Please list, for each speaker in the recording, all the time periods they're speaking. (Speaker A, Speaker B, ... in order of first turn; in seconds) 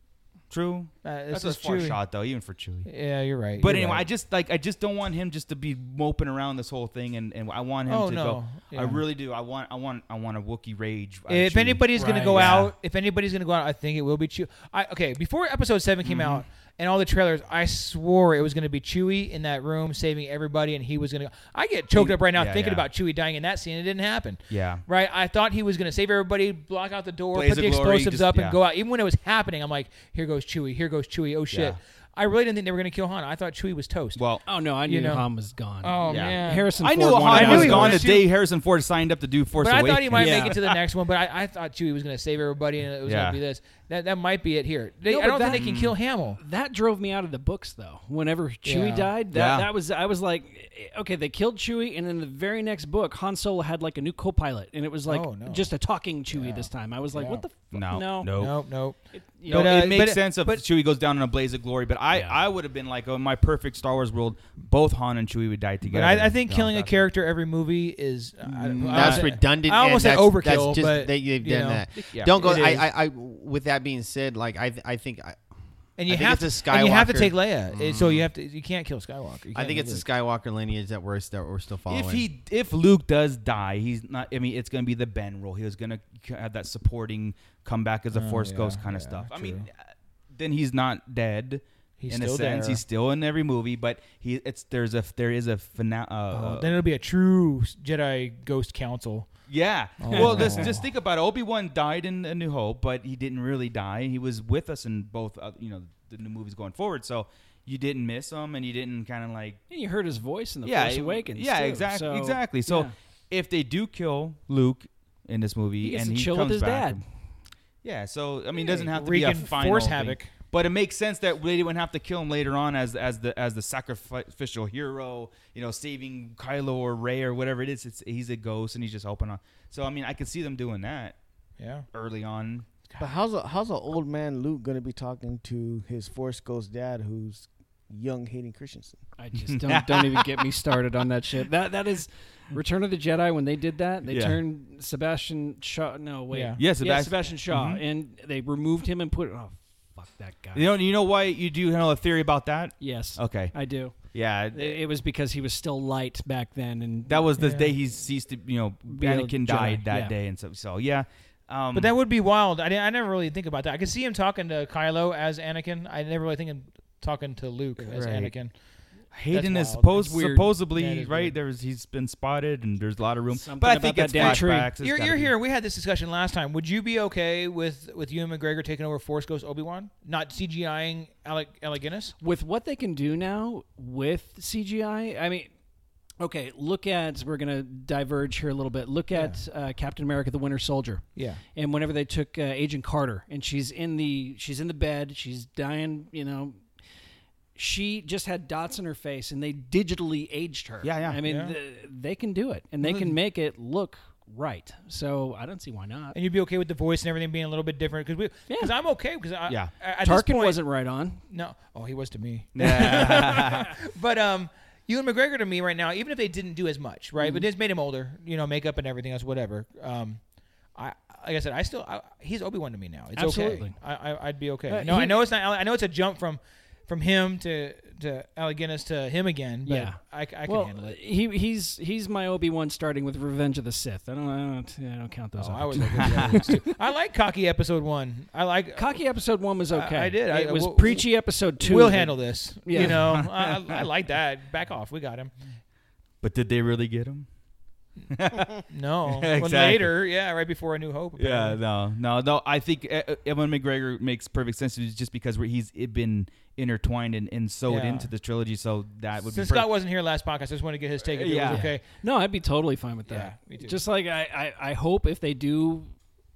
Speaker A: 0.5-2.9, 3.6-12.7, 16.0-16.4, 21.9-22.9, 24.5-24.8, 27.3-28.6, 31.5-31.8, 34.1-34.4, 36.1-40.8, 43.0-43.4, 45.5-46.0, 49.3-49.7, 57.7-58.7, 59.5-66.9, 68.9-69.2, 72.1-72.7, 81.9-96.8, 99.5-109.6, 110.6-117.0, 117.8-131.2, 131.9-132.7, 139.4-140.4, 144.1-144.4, 146.6-147.8, 150.5-154.8, 157.1-161.9, 167.9-168.4, 169.1-175.3, 200.8-201.2, 209.5-209.7, 212.6-213.7, 236.0-236.4, 242.8-243.8, 246.2-247.3, 248.1-249.9, 251.2-259.7, 261.0-261.7
Speaker B: 1.0-2.0, 2.9-4.1, 7.9-9.0, 11.3-34.2, 34.9-35.3, 35.8-38.2, 39.6-46.4, 48.6-49.1, 55.1-55.7, 56.3-57.5, 58.3-60.6, 65.8-72.9, 76.0-80.0, 88.1-89.7, 92.0-92.8, 96.3-99.3, 100.0-100.8, 118.9-120.3, 131.6-131.9, 146.3-146.6, 157.4-157.7, 161.7-168.6, 169.3-171.4, 174.1-182.2, 189.1-189.4, 191.2-191.4, 201.2-201.6, 206.1-210.6, 211.3-220.2, 220.8-231.0, 235.4-239.0, 239.7-245.3, 248.7-251.6, 257.7-258.1, 259.2-261.8, 263.1-263.8
Speaker C: 12.1-12.6, 34.5-38.2, 40.1-40.6, 45.1-58.5, 59.1-59.8, 62.1-62.4, 100.1-100.7, 109.7-112.9, 115.8-117.0, 139.2-150.7, 152.8-157.7, 158.9-160.2, 170.0-170.4, 173.3-174.7, 182.2-185.5, 186.2-196.6, 197.6-206.2, 208.5-208.7, 210.0-211.2, 213.0-213.4, 217.2-217.4, 223.2-223.8, 224.7-225.2, 229.7-236.8, 238.8-243.0, 261.4-265.9
Speaker D: 68.5-75.4, 76.0-78.3, 79.5-82.3
Speaker E: 133.0-139.0